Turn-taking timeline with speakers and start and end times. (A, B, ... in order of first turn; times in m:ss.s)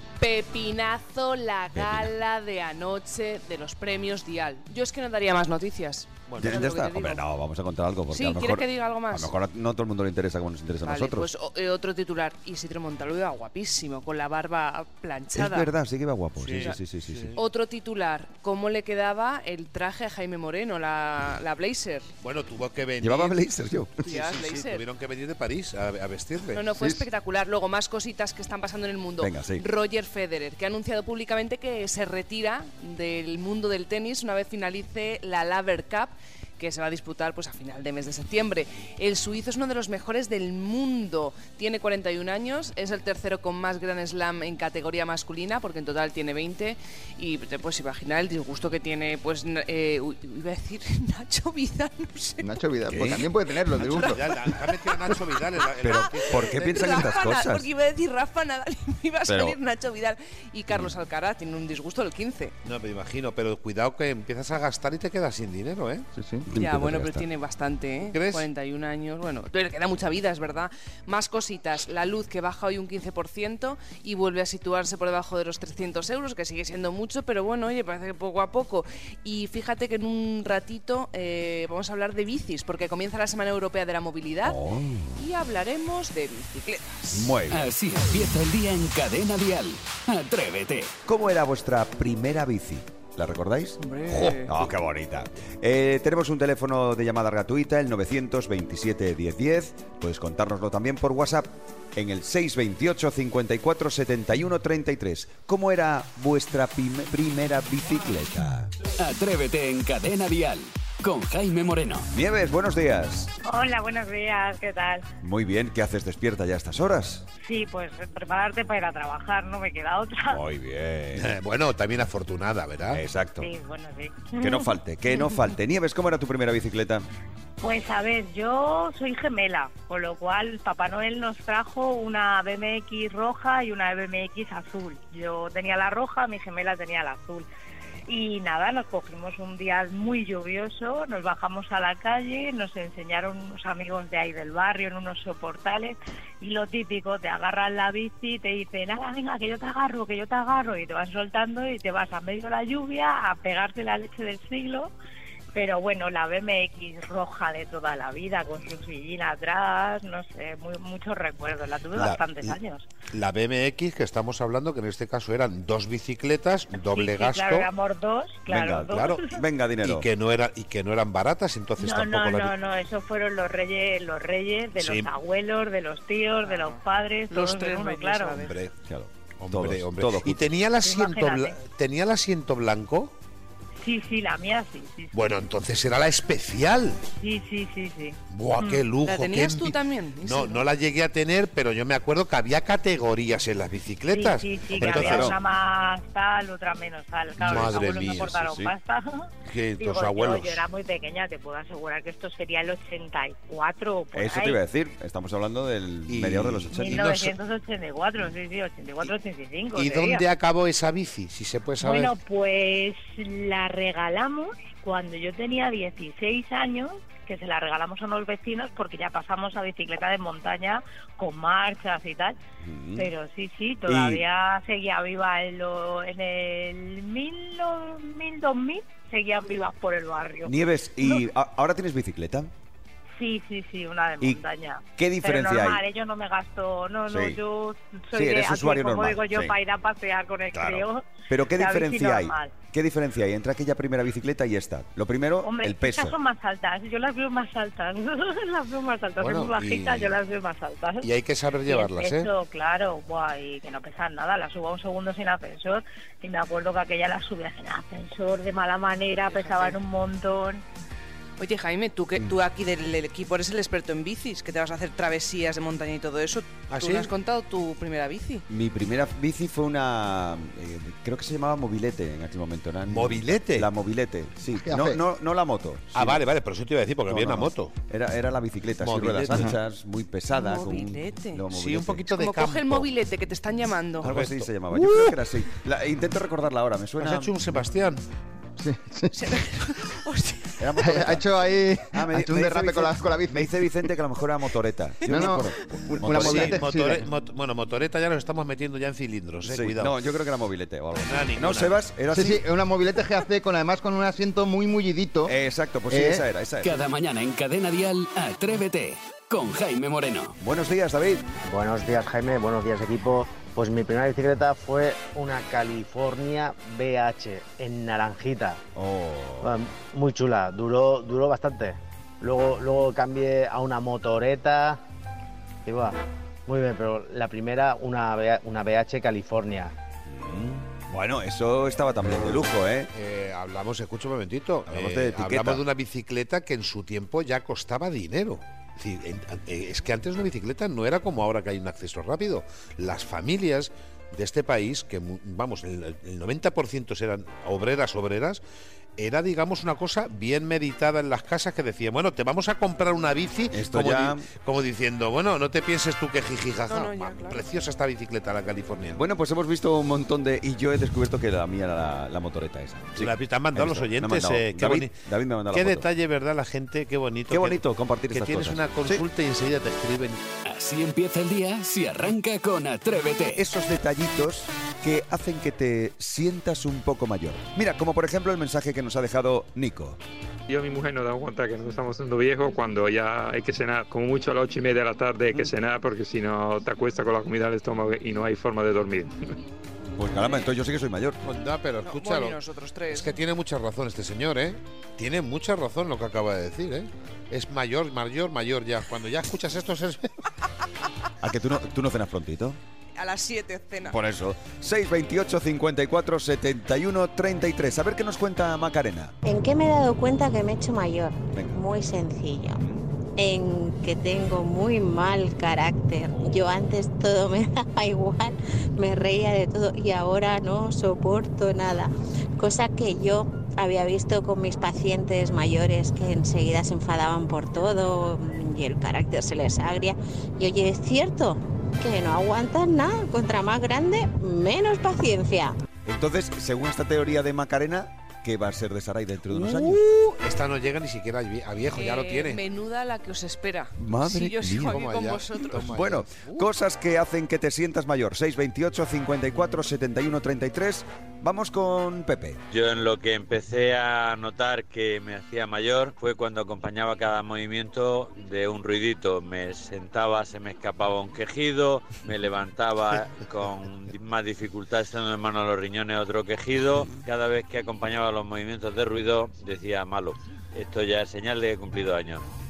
0:00.2-0:07.2 A
0:01.7-0:02.1 B
0:06.3-0:06.7 C
0:06.4-0:11.3 B
0:08.1-0:09.4 A
0:10.8-0:15.7 A
0:15.3-0:17.4 B
0:16.4-0:17.4 C
0:17.3-0:22.1 A
0:22.2-0:23.4 C
0:23.0-0:24.1 B
0:24.0-0:24.8 A
0:24.0-0:26.7 C
0:26.5-0:52.5 A
0:26.8-0:27.0 D
0:29.2-0:29.7 B
0:52.4-0:54.4 D
0:52.9-0:53.2 B
0:54.0-0:57.0 C
0:55.8-0:57.7 B
0:56.4-1:02.5 A
0:59.2-0:59.6 B
1:02.6-1:06.1 C
1:06.2-1:07.3 B
1:06.5-1:24.6 A
1:08.1-1:08.5 C
1:24.4-1:25.2 B
1:25.2-1:27.3 A
1:27.1-1:27.7 B
1:27.5-1:30.9 E
1:31.0-1:48.7 B
1:33.8-1:34.7 A
1:49.0-1:52.1 E
1:52.1-1:53.3 B
1:53.4-1:55.1 F
1:55.2-1:57.2 B
1:57.4-2:00.4 F
2:00.3-2:01.3 B
2:01.1-2:03.0 C
2:02.9-2:03.5 B
2:03.4-2:04.7 F
2:04.4-2:07.0 B
2:07.6-2:17.5 F
2:18.1-2:34.9 F
2:35.5-2:42.9 F
2:41.9-2:42.5 C
2:43.1-2:47.7 C
2:46.9-2:49.2 F
2:48.5-2:50.1 B
2:48.9-2:49.2 C
2:49.8-2:52.6 C
2:51.8-2:58.4 F
2:54.7-2:55.1 C
2:56.4-2:58.6 A
2:58.4-2:58.7 C
2:58.8-3:00.5 B
2:59.4-3:03.1 C
3:00.8-3:01.6 F
3:03.8-3:05.1 F
3:05.1-3:07.0 C
3:07.2-3:08.8 F
3:08.3-3:15.4 C
3:09.0-3:10.6 A
3:14.1-3:24.6 F
3:14.8-3:15.4 B
3:17.4-3:18.3 C
3:17.4-3:18.7 B
3:19.4-3:20.7 C
3:24.1-3:27.1 B
3:26.1-3:27.3 C
3:26.7-3:30.2 F
3:29.7-3:32.1 C
3:31.8-3:42.4 F
3:42.6-3:43.1 B
3:43.0-3:51.2 F
3:43.9-3:44.2 B
3:50.4-3:52.5 B
3:53.2-4:02.5 F
3:55.0-3:55.8 B
3:57.1-3:57.4 B
3:58.1-3:59.6 B
4:00.5-4:06.2 B
4:05.4-4:11.1 F
4:09.2-4:10.2 C
4:11.0-4:12.3 C
4:11.7-4:20.6 F
4:19.3-4:19.8 A
4:21.4-4:28.4 A
4:26.7-4:27.1 C
4:28.5-4:36.2 B
4:32.9-4:33.7 C
4:34.6-4:35.0 D
4:35.9-4:37.7 C
4:37.1-4:42.1 B
4:38.8-4:39.5 C
4:39.3-4:39.6 D
4:40.3-4:41.4 A
4:41.5-4:42.9 C
4:42.1-4:44.1 A
4:44.0-4:47.4 B
4:44.0-4:44.5 C
4:44.7-4:45.2 D
4:47.0-4:48.0 C
4:48.6-4:49.4 D
4:49.1-4:50.6 A
4:50.6-4:51.2 B
4:50.7-4:53.7 D
4:51.9-4:56.8 B
4:55.0-4:57.1 D
4:56.1-4:59.9 C
4:59.4-5:02.4 B
5:01.0-5:01.8 C
5:02.1-5:05.4 D
5:05.3-5:06.8 B
5:05.9-5:06.2 D
5:06.6-5:10.4 E
5:10.4-5:11.3 B
5:11.4-5:18.6 G
5:18.8-5:19.5 B
5:19.4-5:24.8 G
5:25.6-5:29.7 G
5:30.1-5:32.9 B
5:32.9-5:48.4 C
5:34.7-5:35.6 B
5:49.0-5:59.0 C
5:53.5-5:54.3 B
5:56.7-5:57.4 A
5:59.0-6:05.9 B
6:03.0-6:04.9 C
6:05.5-6:10.2 C
6:07.3-6:09.0 B
6:10.4-6:13.4 E
6:13.4-6:20.0 B
6:20.5-6:29.3 H
6:30.0-6:31.2 B
6:31.2-6:40.1 C
6:31.8-6:33.2 A
6:41.2-6:42.6 B
6:43.0-6:44.0 A
6:43.9-6:49.1 B
6:49.2-6:52.6 I
6:51.3-6:51.6 B
6:53.2-7:15.6 I
7:15.8-7:19.8 B
7:19.5-7:22.4 C
7:21.8-7:25.7 A
7:23.8-7:24.8 B
7:24.6-7:26.5 C
7:25.5-7:32.4 B
7:32.5-7:52.2 J